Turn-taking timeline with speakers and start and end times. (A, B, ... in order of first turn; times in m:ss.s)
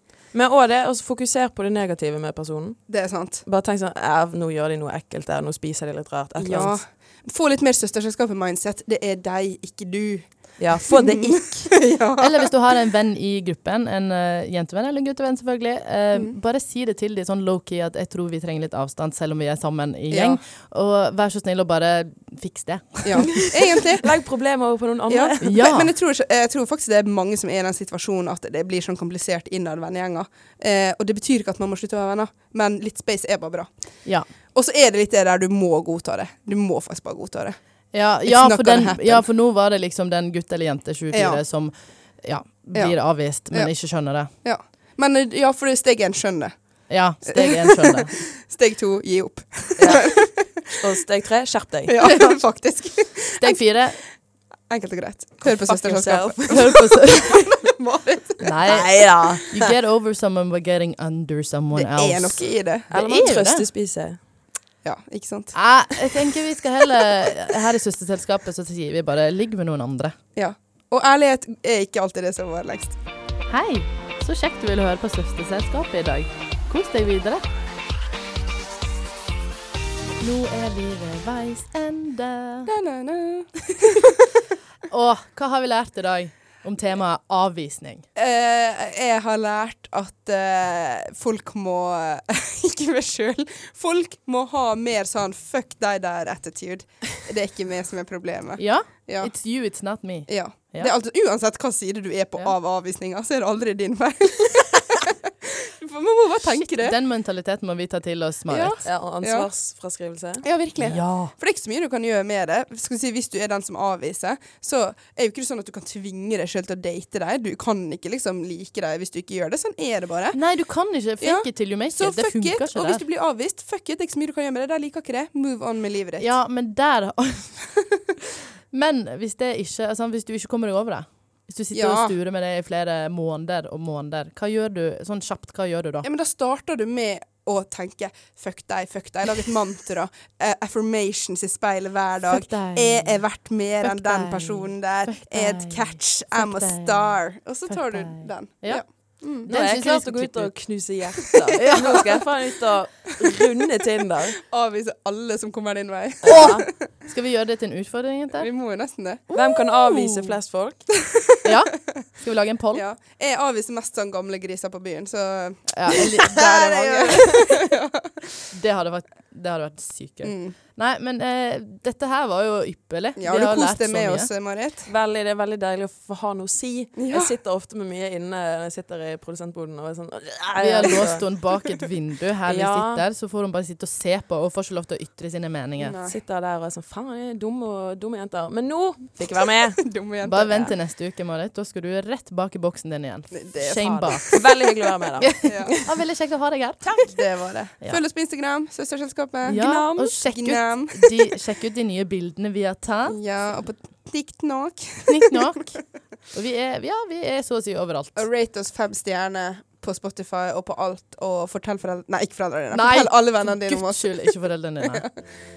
0:00.3-0:02.8 A
0:02.9-0:03.4 B
0:03.4-0:06.8 A
0:06.4-0:12.5 B
0:10.6-0:11.7 A
0:12.2-0:23.4 C
0:20.1-0:20.4 B
0:23.0-0:24.1 B
0:24.0-0:25.5 A
0:25.1-0:33.7 B
0:25.4-0:25.9 C
0:34.5-0:37.6 B
0:37.9-0:44.3 C
0:38.2-0:39.2 B
0:41.1-0:41.4 B
0:42.7-0:43.7 B
0:44.3-0:46.5 B
0:46.9-0:48.1 C
0:47.2-0:50.7 B
0:49.8-0:50.1 A
0:50.8-0:52.0 A
0:51.9-0:53.6 B
0:53.4-0:54.0 C
0:54.7-0:58.4 B
0:55.4-0:56.8 A
0:56.4-0:57.4 C
0:58.4-1:03.6 C
0:58.7-0:59.7 A
1:01.7-1:02.9 B
1:02.9-1:04.2 A
1:04.8-1:05.5 B
1:05.5-1:10.1 C
1:10.3-1:13.0 B
1:13.5-1:17.4 C
1:20.2-1:22.7 C
1:22.6-1:24.2 B
1:24.9-1:28.0 C
1:28.2-1:39.3 B
1:38.6-1:40.9 C
1:40.3-1:47.0 B
1:46.6-1:48.8 C
1:48.5-1:49.5 B
1:48.8-1:50.4 A
1:50.4-2:00.4 B
1:50.8-1:51.3 C
2:00.3-2:03.0 C
2:01.2-2:06.3 B
2:06.2-2:07.6 C
2:08.7-2:16.1 C
2:11.7-2:12.1 B
2:16.0-2:29.5 B
2:22.3-2:23.2 C
2:23.8-2:28.8 C
2:29.3-2:30.7 C
2:29.4-2:34.4 A
2:31.6-2:32.0 C
2:34.4-2:36.6 B
2:36.2-2:36.6 A
2:36.3-2:36.5 C
2:37.0-2:38.5 C
2:38.4-2:39.2 B
2:39.3-2:40.3 C
2:39.3-2:40.8 A
2:41.1-2:41.4 B
2:41.4-2:42.8 C
2:42.7-2:48.2 B
2:45.7-2:47.4 C
2:48.5-2:54.3 C
2:50.2-2:50.5 B
2:53.2-2:54.9 B
2:54.9-3:01.2 A
2:57.0-2:57.3 B
3:00.6-3:05.9 C
3:02.5-3:03.0 A
3:05.8-3:06.2 B
3:06.1-3:09.8 A
3:09.8-3:10.7 B
3:10.2-3:14.4 C
3:13.3-3:14.4 B
3:14.3-3:15.8 A
3:15.2-3:16.8 C
3:15.4-3:15.8 B
3:16.8-3:17.1 A
3:17.0-3:21.3 B
3:19.4-3:23.2 C
3:19.5-3:20.1 A
3:23.1-3:25.6 B
3:25.1-3:25.8 C
3:26.3-3:28.2 C
3:28.2-3:35.1 B
3:32.7-3:35.1 C